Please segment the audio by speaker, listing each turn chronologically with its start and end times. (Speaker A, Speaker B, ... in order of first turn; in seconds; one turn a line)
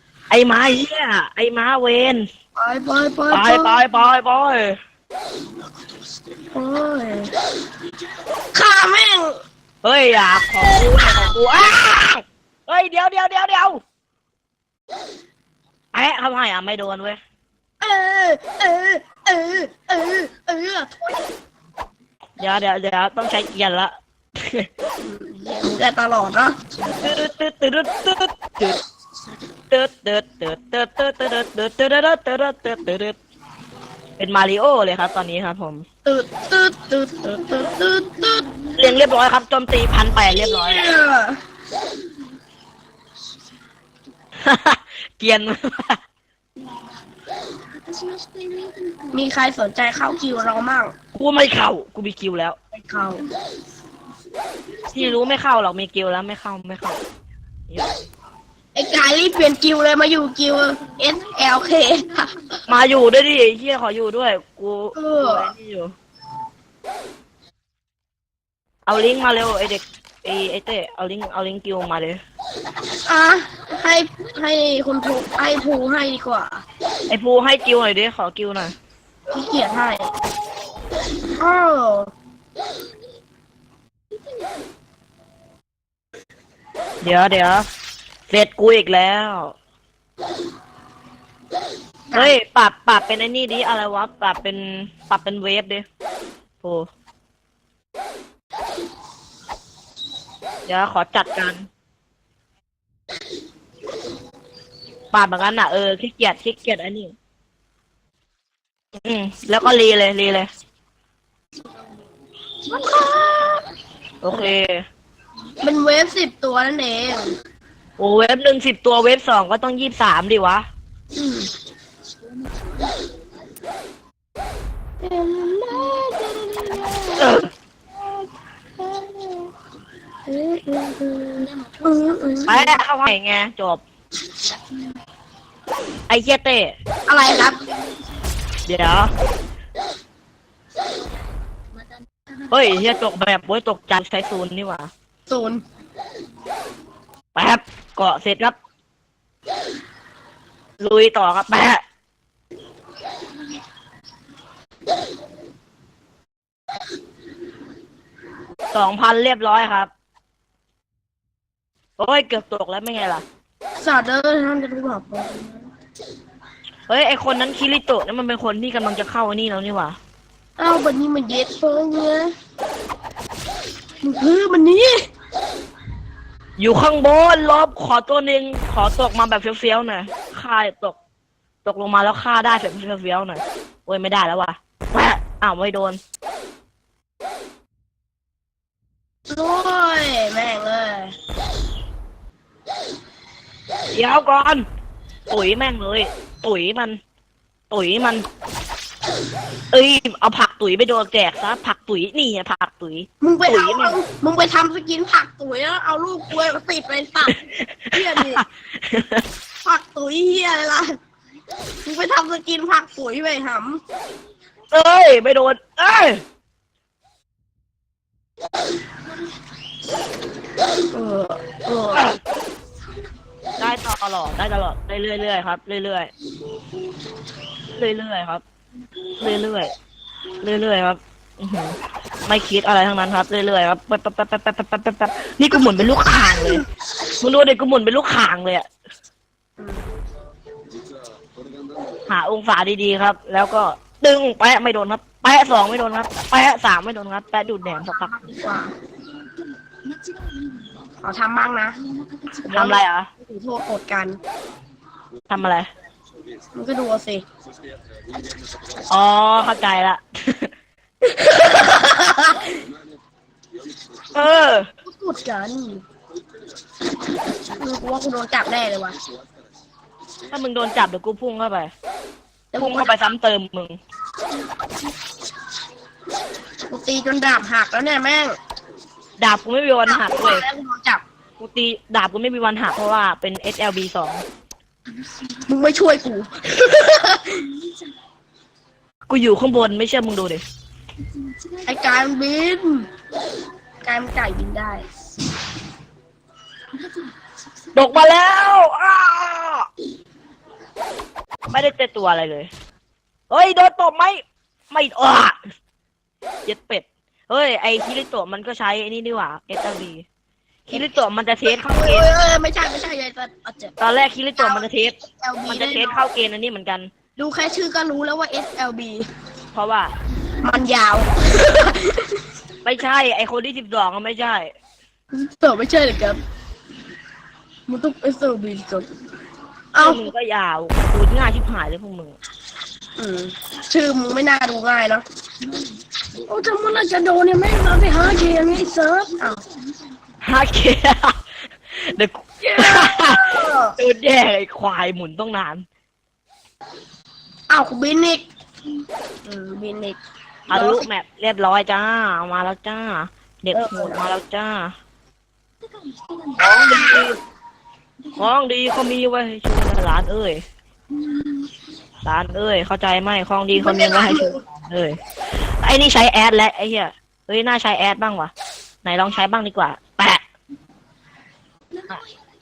Speaker A: 0.3-2.3
Speaker B: 2.6-3.8
Speaker A: 3.3-4.8
Speaker B: 6.5-7.3
Speaker B: 8.5-9.4
Speaker A: 9.8-13.8
Speaker B: 10.6-11.3
Speaker A: 15.9-17.2
Speaker B: 17.8-20.9
Speaker A: 22.4-24.7
Speaker B: 25.0-26.5
Speaker A: 27.0-28.8
Speaker A: 29.7-33.2
Speaker A: 34.2-35.8
Speaker B: 36.0-38.5
Speaker A: 38.7-40.9
Speaker B: 40.3-41.4
Speaker A: 44.4-46.0
Speaker B: 49.1-50.9
Speaker A: 51.1-52.6
Speaker B: 52.7-53.2
Speaker A: 54.9-57.0
Speaker A: 57.7-58.0
Speaker B: 58.7-62.3
Speaker A: 62.7-65.9
Speaker B: 64.9-65.5
Speaker A: 68.9-72.2
Speaker B: 73.0-76.6
Speaker A: 77.1-78.7
Speaker B: 79.3-80.1
Speaker B: 81.4-82.1
Speaker A: 87.0-87.6
Speaker A: 88.3-89.5
Speaker B: 92.1-92.3
Speaker A: 92.1-95.8
Speaker A: 96.6-96.9
Speaker A: 100.7-101.7
Speaker A: 105.1-107.1
Speaker A: 109.0-110.5
Speaker B: 112.7-113.6
Speaker A: 114.2-114.8
Speaker B: 115.6-117.3
Speaker A: 118.0-120.6
Speaker B: 121.2-121.5
Speaker B: 125.0-127.4
Speaker A: 127.2-127.5
Speaker B: 128.8-129.5
Speaker B: 130.3-132.7
Speaker A: 132.5-133.8
Speaker A: 136.1-136.7
Speaker B: 137.1-137.7
Speaker A: 138.7-139.1
Speaker A: 142.5-144.9
Speaker B: 145.3-145.6
Speaker A: 147.3-148.6
Speaker A: 150.8-151.8
Speaker A: 158.7-159.9
Speaker A: 162.0-163.2
Speaker B: 163.8-165.7
Speaker A: 166.9-170.0
Speaker B: 170.6-172.3
Speaker B: 174.0-175.1
Speaker A: 176.6-181.0
Speaker A: 181.6-186.0
Speaker B: 189.3-191.1
Speaker A: 193.9-194.6
Speaker A: 195.3-197.0
Speaker A: 197.7-198.2
Speaker A: 199.7-204.0
Speaker B: 203.2-207.4
Speaker A: 207.3-209.2
Speaker B: 207.9-208.4
Speaker B: 209.6-210.9
Speaker B: 211.8-213.8
Speaker A: 214.7-216.2
Speaker B: 220.9-222.1
Speaker A: 223.6-226.1
Speaker A: 227.7-228.4
Speaker A: 229.2-229.7
Speaker A: 230.4-231.8
Speaker A: 232.3-236.6
Speaker A: 237.2-238.7
Speaker B: 239.6-239.9
Speaker A: 242.1-248.2
Speaker B: 247.9-248.7
Speaker B: 251.0-251.8
Speaker B: 252.4-254.2
Speaker A: 252.4-253.1
Speaker A: 255.3-255.7
Speaker B: 256.6-257.2
Speaker A: 258.9-260.5
Speaker B: 261.1-262.5
Speaker A: 264.1-264.7
Speaker B: 264.9-265.8
Speaker B: 267.6-268.9
Speaker A: 270.3-271.7
Speaker B: 272.5-272.9
Speaker A: 272.6-273.8
Speaker B: 276.7-278.4
Speaker A: 279.2-280.4
Speaker B: 279.9-281.0
Speaker A: 281.4-284.2
Speaker B: 285.5-287.6
Speaker A: 289.1-290.4
Speaker B: 291.6-292.9
Speaker B: 293.8-294.9
Speaker A: 297.7-299.7
Speaker A: 301.5-302.5
Speaker A: 303.3-305.4
Speaker A: 306.4-310.0
Speaker A: 310.7-312.1
Speaker B: 311.4-313.7
Speaker A: 313.8-316.9
Speaker B: 314.4-314.7
Speaker B: 315.2-316.0
Speaker B: 317.2-319.1
Speaker A: 319.5-319.9
Speaker B: 320.4-322.2
Speaker A: 322.6-324.5
Speaker B: 325.1-326.2
Speaker B: 327.7-328.9
Speaker B: 329.7-330.0
Speaker A: 329.8-332.2
Speaker B: 333.0-335.0
Speaker B: 336.3-339.4
Speaker A: 340.2-341.1
Speaker A: 341.7-345.6
Speaker B: 342.4-343.8
Speaker B: 347.5-348.2
Speaker B: 349.2-350.0
Speaker A: 350.5-354.7
Speaker B: 350.5-350.9
Speaker B: 353.5-354.0
Speaker A: 356.4-357.2
Speaker B: 356.6-357.0
Speaker A: 358.1-360.4
Speaker A: 362.0-365.0
Speaker B: 363.6-364.4
Speaker A: 365.6-368.3
Speaker A: 368.8-370.2